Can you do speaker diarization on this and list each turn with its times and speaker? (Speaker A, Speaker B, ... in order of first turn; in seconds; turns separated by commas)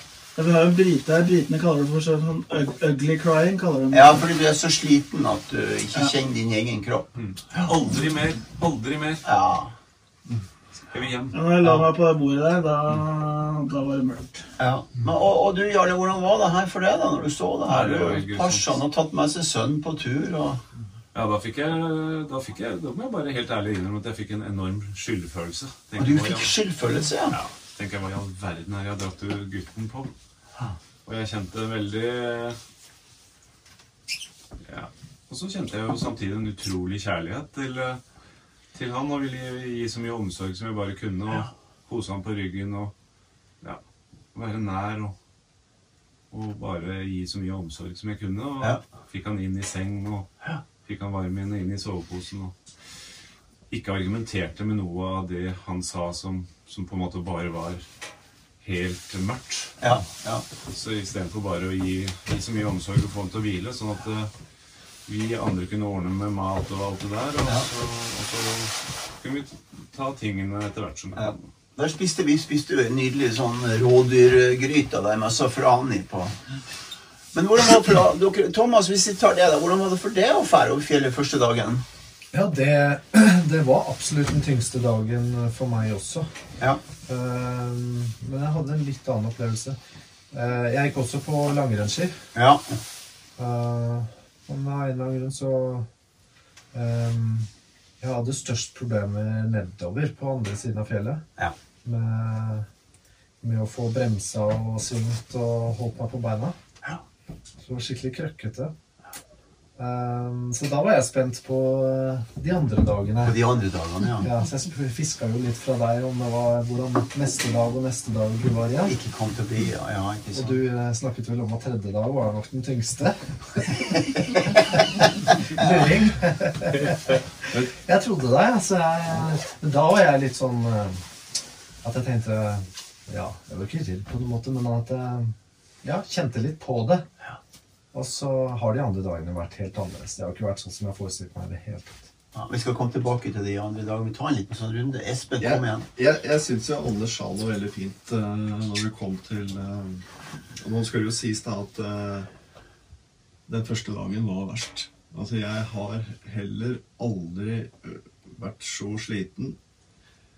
Speaker A: 0.3-4.2, Speaker B: 3.9-7.1, Speaker C: 7.2-9.2, Speaker B: 9.2-9.7, Speaker C: 10.9-11.3, Speaker A: 11.3-14.5, Speaker B: 14.6-20.6, Speaker C: 17.6-18.8, Speaker C: 21.1-26.5, Speaker B: 26.0-27.4, Speaker C: 27.3-30.1, Speaker C: 31.1-32.6, Speaker C: 34.6-38.0, Speaker C: 38.7-42.9, Speaker C: 44.3-45.1, Speaker C: 46.3-50.3, Speaker C: 50.9-52.6, Speaker C: 53.7-57.9, Speaker C: 58.6-59.9, Speaker B: 59.8-60.5, Speaker C: 60.7-64.3, Speaker C: 65.1-71.4, Speaker B: 71.2-76.4, Speaker B: 77.3-81.8, Speaker D: 82.3-86.3, Speaker D: 87.1-89.8, Speaker D: 90.3-92.2, Speaker B: 92.3-92.8, Speaker D: 93.4-95.9, Speaker D: 96.7-101.2, Speaker D: 101.8-102.7, Speaker D: 103.4-106.6, Speaker D: 107.6-108.7, Speaker D: 109.8-113.4, Speaker B: 113.2-114.3, Speaker D: 114.2-119.0, Speaker B: 118.8-120.6, Speaker D: 120.3-131.0, Speaker D: 131.8-137.1, Speaker D: 137.9-142.1, Speaker B: 142.3-145.9, Speaker E: 145.4-150.1, Speaker E: 150.6-152.3, Speaker E: 153.5-159.6